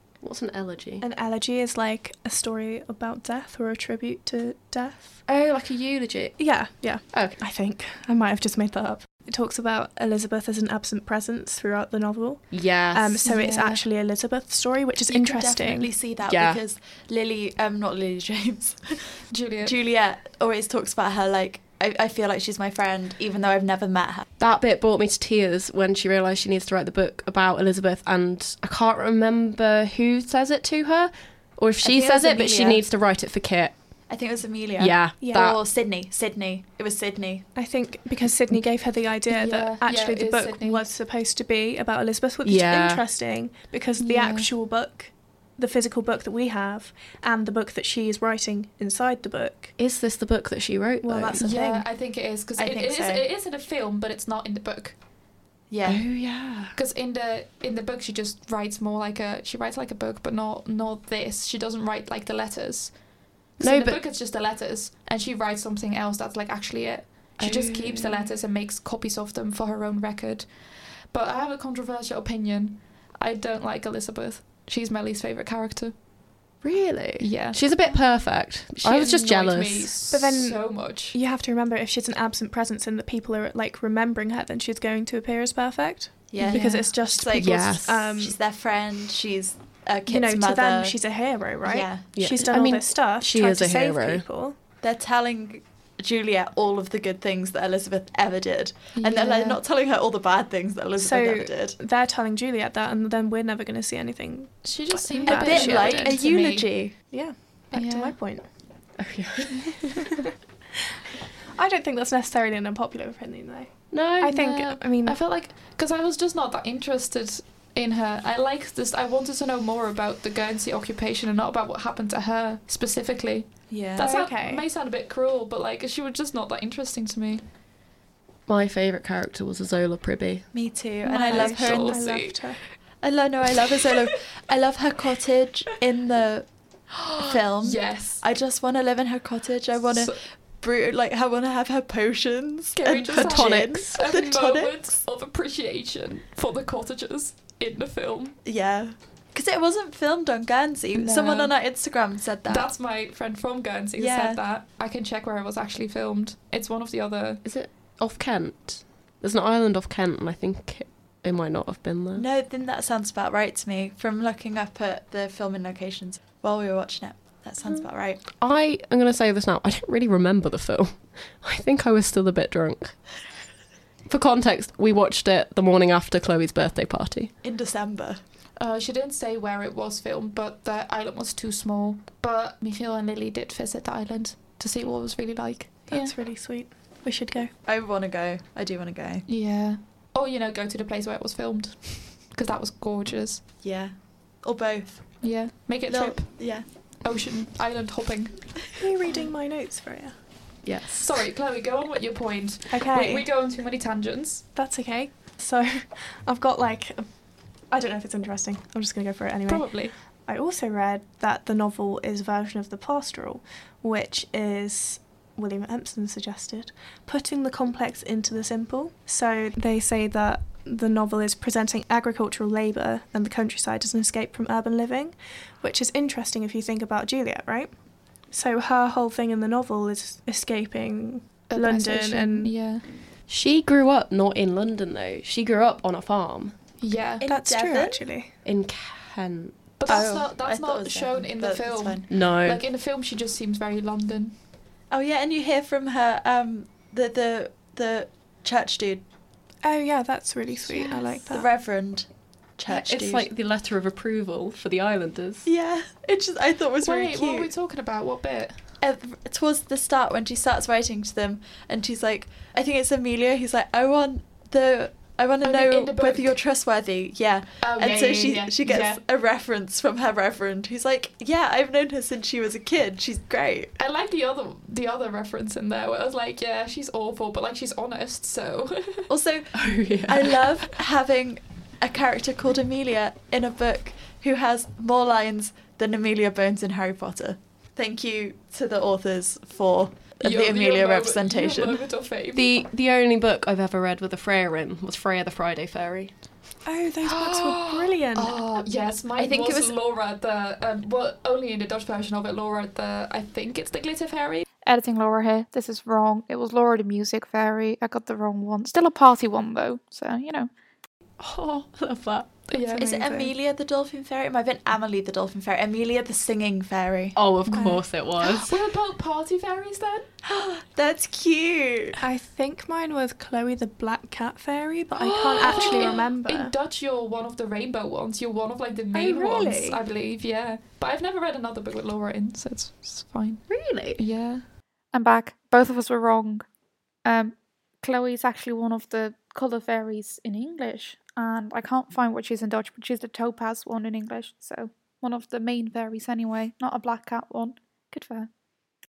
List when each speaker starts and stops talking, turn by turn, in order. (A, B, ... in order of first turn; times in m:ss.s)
0:00.2-0:01.0 A
0:01.0-0:05.2 B
0:05.2-0:06.4 A
0:06.4-0:15.9 B
0:07.1-0:07.4 A
0:12.5-0:13.2 A
0:13.2-0:13.8 C
0:15.1-0:24.3 D
0:16.2-0:16.6 A
0:19.3-0:19.7 C
0:24.4-0:33.7 A
0:31.8-0:32.8 D
0:34.1-0:37.5 D
0:34.8-0:35.6 A
0:35.2-0:35.5 B
0:37.5-0:49.8 B
0:39.3-0:40.9 C
0:42.4-0:43.0 A
0:44.0-0:44.5 C
0:49.8-0:51.4 A
0:51.0-0:51.9 B
0:51.4-0:55.0 C
0:52.6-0:53.2 D
0:55.7-0:56.0 D
0:55.8-0:56.7 A
0:56.7-1:03.0 C
1:03.6-1:10.5 C
1:03.6-1:04.0 A
1:07.4-1:08.3 A
1:11.0-1:16.0 C
1:16.6-1:19.9 A
1:17.2-1:21.2 C
1:20.1-1:28.4 B
1:26.3-1:31.0 D
1:26.4-1:26.8 C
1:27.4-1:28.1 A
1:30.1-1:34.6 B
1:31.6-1:32.1 D
1:32.2-1:34.2 A
1:34.8-1:41.8 D
1:39.0-1:39.6 C
1:41.0-1:46.2 B
1:44.6-1:47.1 C
1:45.2-1:47.0 D
1:47.0-1:48.5 B
1:47.7-1:48.2 C
1:49.0-1:50.0 A
1:51.5-1:55.2 B
1:53.9-1:54.4 A
1:54.4-2:07.4 C
2:03.7-2:04.1 D
2:04.0-2:04.6 B
2:08.5-2:10.4 A
2:10.5-2:12.0 D
2:11.0-2:12.6 B
2:11.2-2:12.6 C
2:13.0-2:16.5 D
2:17.0-2:18.2 C
2:17.2-2:24.7 D
2:19.9-2:20.2 C
2:22.8-2:28.4 C
2:23.1-2:24.0 A
2:28.4-2:32.7 D
2:30.9-2:31.5 C
2:32.4-2:37.4 C
2:34.0-2:34.4 D
2:37.4-2:42.2 A
2:42.2-2:48.2 D
2:48.3-2:53.0 A
2:54.1-2:57.3 A
2:57.4-2:58.2 D
2:58.6-3:06.2 C
3:05.9-3:07.5 B
3:07.6-3:09.2 D
3:09.2-3:13.4 C
3:13.6-3:15.2 D
3:15.2-3:18.4 C
3:15.8-3:16.6 D
3:18.8-3:20.1 B
3:20.6-3:21.0 A
3:21.0-3:24.4 C
3:22.7-3:23.3 B
3:24.5-3:47.8 B
3:29.5-3:29.9 C
3:48.3-3:52.5 B
3:51.5-3:52.8 C
3:53.3-3:56.5 A
3:56.8-3:57.2 C
3:57.2-3:58.0 D
3:57.2-3:58.3 B
3:58.4-3:59.6 A
3:59.8-4:04.3 C
3:59.8-4:02.1 D
4:02.1-4:02.6 A
4:04.9-4:09.0 D
4:09.6-4:11.5 B
4:10.7-4:11.0 C
4:11.2-4:12.0 D
4:12.6-4:13.2 D
4:12.7-4:15.5 A
4:15.4-4:17.5 D
4:16.8-4:18.6 C
4:18.8-4:33.7 D
4:25.4-4:26.4 C
4:27.6-4:29.0 C
4:33.8-4:39.1 C
4:39.1-4:51.8 D
4:39.5-4:40.4 A
4:50.2-4:52.5 C
4:52.3-4:56.1 A
4:56.6-4:58.4 B
4:57.0-5:04.4 C
4:59.2-4:59.7 D
5:04.6-5:10.5 E
5:11.2-5:12.3 A
5:12.5-5:12.9 C
5:12.7-5:13.3 B
5:12.7-5:17.2 D
5:17.1-5:18.6 A
5:17.5-5:20.1 C
5:17.6-5:17.8 B
5:20.2-5:22.0 D
5:22.0-5:26.5 B
5:24.9-5:26.0 A
5:25.4-5:34.4 C
5:28.9-5:29.8 B
5:33.5-5:34.0 A
5:34.9-5:36.4 E
5:37.0-5:48.3 E